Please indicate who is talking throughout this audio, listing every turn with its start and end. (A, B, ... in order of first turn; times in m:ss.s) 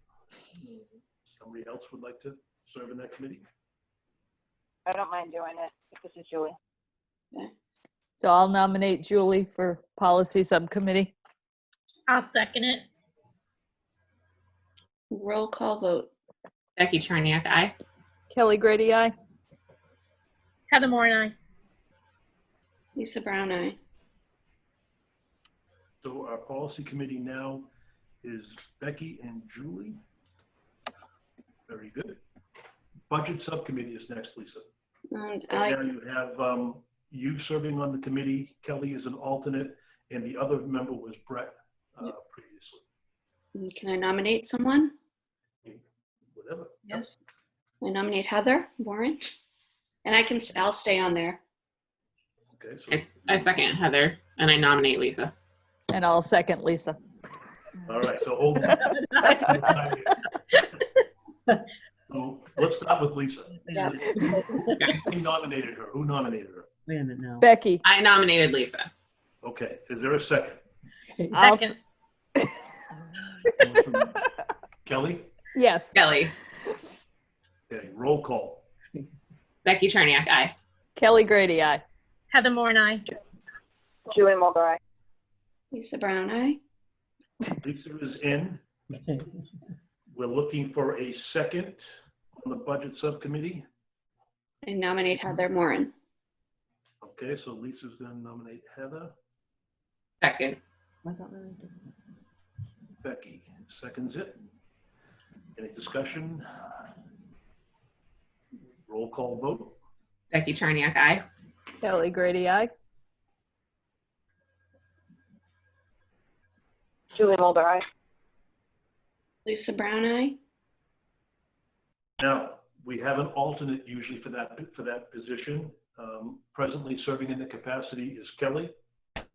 0:01.4-0:03.4 A
0:04.9-0:06.5 B
0:08.2-0:11.1 C
0:12.1-0:12.8 D
0:15.1-0:16.1 E
0:16.8-0:17.7 F
0:18.3-0:19.1 C
0:20.7-0:21.3 D
0:23.0-0:23.8 E
0:26.0-0:27.7 A
0:28.2-0:30.0 A
0:31.7-0:32.2 A
0:33.1-0:34.7 A
0:35.1-0:35.9 E
0:35.5-0:42.8 A
0:43.5-0:44.9 E
0:46.3-0:47.0 A
0:46.9-0:47.1 E
0:47.8-0:49.4 E
0:50.0-0:51.4 E
0:52.5-0:53.4 A
0:52.9-0:55.3 F
0:55.9-0:57.0 C
0:57.8-1:00.2 A
0:58.9-0:59.6 G
1:02.1-1:06.7 A
1:03.6-1:05.0 G
1:06.9-1:07.4 G
1:07.4-1:07.8 C
1:07.8-1:08.9 F
1:09.4-1:10.6 A
1:11.1-1:11.4 G
1:11.3-1:11.7 C
1:11.4-1:11.7 D
1:12.4-1:12.7 C
1:13.6-1:14.2 A
1:14.8-1:15.3 A
1:15.5-1:16.0 C
1:15.9-1:16.3 F
1:17.7-1:18.6 A
1:19.6-1:20.5 F
1:21.0-1:21.8 C
1:22.3-1:23.0 D
1:24.1-1:24.8 B
1:25.7-1:26.6 E
1:27.5-1:28.6 A
1:30.1-1:31.8 A
1:32.3-1:33.6 A
1:34.6-1:35.9 E
1:37.0-1:39.1 A
1:40.2-1:40.6 F
1:41.0-1:41.8 G
1:43.0-1:44.4 A
1:45.6-1:46.5 A
1:48.8-1:49.8 A
1:50.3-1:51.2 F
1:51.8-1:52.7 C
1:57.1-1:57.8 B
1:59.4-2:00.4 E
2:02.2-2:08.7 A